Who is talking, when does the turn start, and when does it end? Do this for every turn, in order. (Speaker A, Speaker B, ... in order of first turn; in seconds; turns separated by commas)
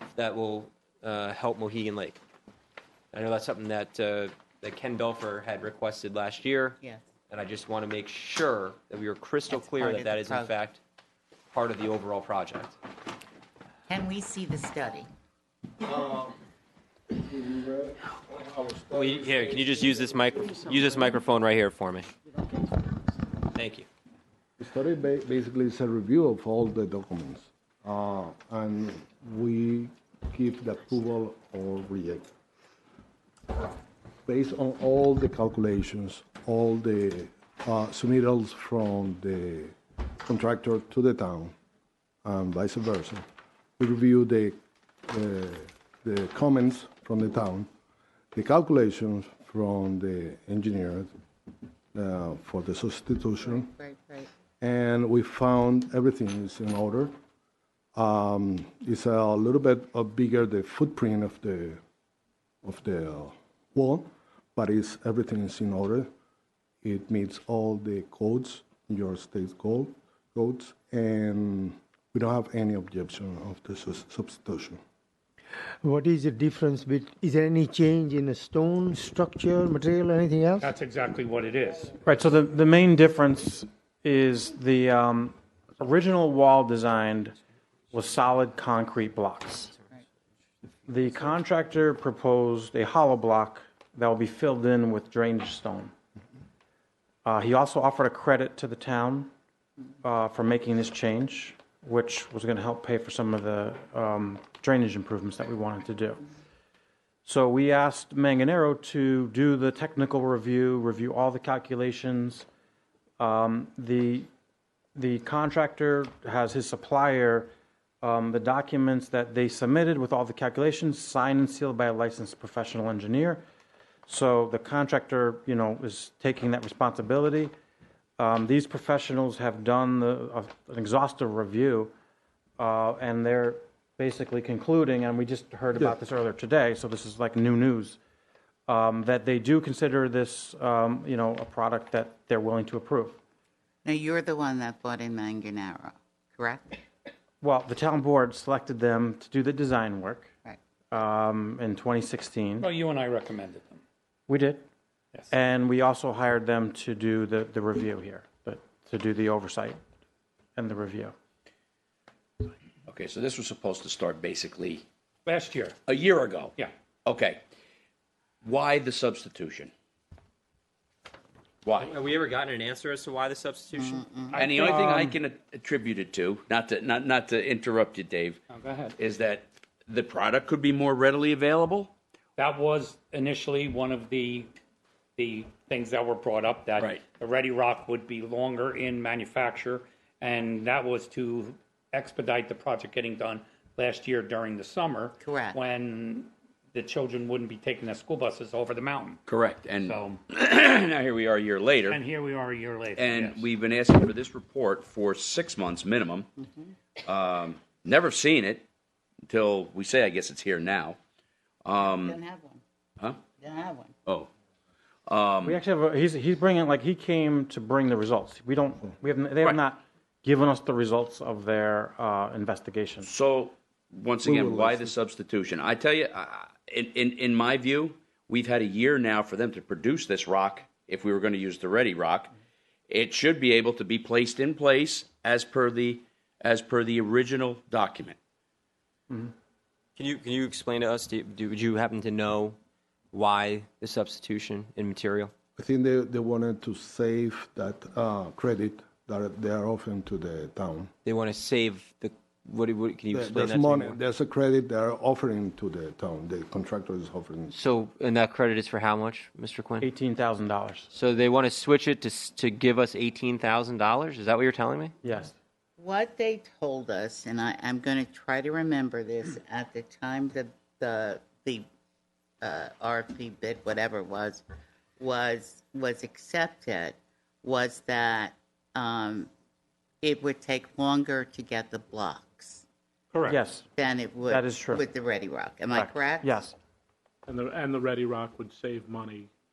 Speaker A: 0.2-2.2, Speaker A: 3.1-6.8, Speaker A: 7.3-10.8, Speaker B: 9.5-10.5, Speaker A: 11.5-12.8, Speaker B: 13.9-15.1, Speaker C: 15.8-16.4, Speaker C: 17.1-20.9, Speaker A: 18.9-22.1, Speaker A: 23.5-23.9, Speaker C: 24.6-32.3, Speaker C: 34.3-41.5, Speaker C: 42.2-43.2, Speaker C: 43.8-44.6, Speaker C: 45.1-47.7, Speaker C: 48.3-51.1, Speaker C: 51.9-53.7, Speaker B: 53.4-54.3, Speaker C: 54.6-57.1, Speaker C: 58.0-61.8, Speaker C: 62.6-66.1, Speaker C: 66.8-74.8, Speaker D: 75.8-80.7, Speaker E: 80.6-81.9, Speaker F: 82.0-87.4, Speaker F: 87.9-89.7, Speaker F: 90.9-95.9, Speaker F: 97.2-99.3, Speaker F: 100.0-106.3, Speaker F: 107.2-112.5, Speaker F: 113.2-114.3, Speaker F: 115.0-123.4, Speaker F: 124.1-127.5, Speaker F: 128.2-131.9, Speaker F: 132.6-138.0, Speaker F: 138.7-143.2, Speaker B: 143.8-146.8, Speaker F: 147.4-150.3, Speaker F: 150.9-152.7, Speaker E: 152.6-153.8, Speaker F: 154.3-154.7, Speaker F: 155.3-159.8, Speaker F: 160.6-161.1, Speaker G: 162.9-164.8, Speaker E: 165.3-165.8, Speaker G: 165.9-166.5, Speaker G: 167.1-167.4, Speaker G: 168.4-169.7, Speaker A: 171.8-174.0, Speaker B: 173.7-174.4, Speaker E: 174.3-175.2, Speaker G: 174.4-178.4, Speaker E: 178.5-178.9, Speaker G: 179.0-181.9, Speaker E: 182.4-184.5, Speaker E: 185.2-199.2, Speaker B: 195.2-195.6, Speaker G: 199.3-202.0, Speaker E: 199.8-200.2, Speaker E: 201.9-203.5, Speaker G: 203.0-206.3, Speaker B: 206.4-206.7, Speaker G: 207.0-208.7, Speaker G: 209.3-211.0, Speaker G: 211.7-212.1, Speaker B: 211.8-212.6, Speaker B: 213.2-213.9, Speaker G: 215.1-215.6, Speaker F: 215.4-223.1, Speaker G: 223.1-232.3, Speaker C: 224.2-225.0, Speaker G: 232.9-238.2, Speaker A: 240.0-242.6, Speaker A: 243.1-245.3, Speaker C: 245.6-250.9, Speaker A: 251.0-254.0, Speaker C: 253.1-257.6, Speaker A: 257.5-259.9, Speaker F: 259.8-260.9, Speaker A: 260.9-264.9, Speaker F: 265.0-265.4, Speaker B: 265.8-271.7, Speaker B: 272.4-274.4, Speaker B: 275.0-279.3, Speaker B: 280.0-282.6, Speaker E: 283.1-283.4, Speaker F: 283.3-283.7, Speaker B: 283.7-286.4, Speaker F: 284.3-284.8, Speaker F: 285.7-286.6, Speaker H: 287.3-289.3